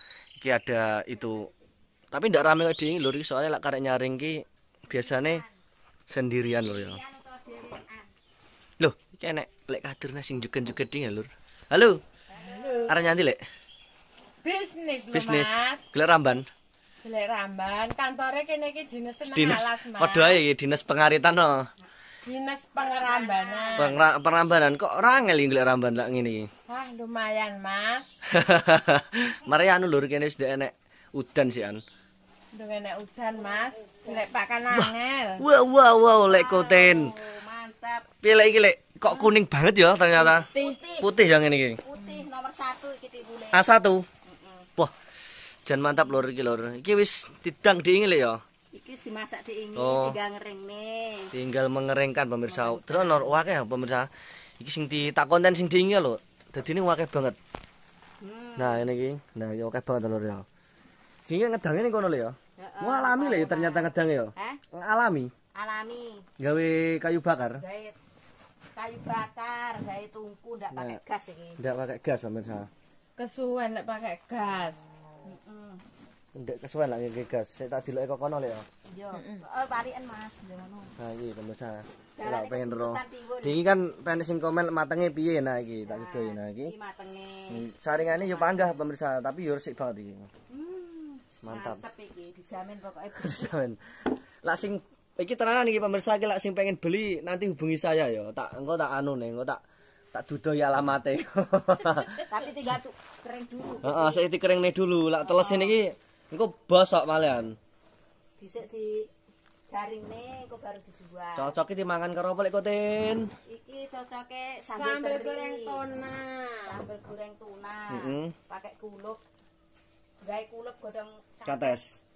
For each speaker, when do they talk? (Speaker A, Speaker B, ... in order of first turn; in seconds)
Speaker A: 0.4-1.5, 2.1-5.4, 6.1-7.0, 8.8-12.0, 12.9-13.4, 15.1-16.5, 19.3-21.7, 23.8-26.5, 28.3-31.8, 34.7-37.2, 38.2-40.5, 41.0-41.8, 43.5-44.0, 45.6-48.4, 49.8-50.2, 51.3-57.4, 58.6-60.5, 61.3-65.3, 66.4-67.6, 70.7-71.0, 71.6-72.7, 76.3-78.7, 81.0-86.7, 87.5-90.3, 91.4-91.8, 93.2-93.8, 94.4-99.6, 100.1-102.3, 103.8-107.6, 111.4-113.3, 117.9-118.3, 121.5-122.0
Speaker B: 4.9-5.4, 6.6-8.1, 12.3-13.2, 22.8-24.1, 33.3-34.3, 36.2-38.1, 40.3-41.1, 41.8-43.6, 44.2-44.7, 48.7-51.3, 52.5-53.4, 58.2-58.9, 62.6-64.6, 65.5-66.3, 67.6-68.0, 68.8-71.6, 75.2-75.8, 78.9-80.9, 82.2-83.6, 85.8-88.7, 90.5-93.5, 102.3-104.3, 105.2-105.8, 108.4-109.1, 109.7-111.5, 113.5-115.8, 116.6-119.2, 120.2-121.8
Speaker C: 12.4-13.0, 14.4-15.8, 17.0-20.4, 22.2-23.9, 26.7-28.2, 32.5-35.4, 40.2-40.8, 42.0-42.2, 73.2-74.8, 79.1-79.4, 114.7-116.8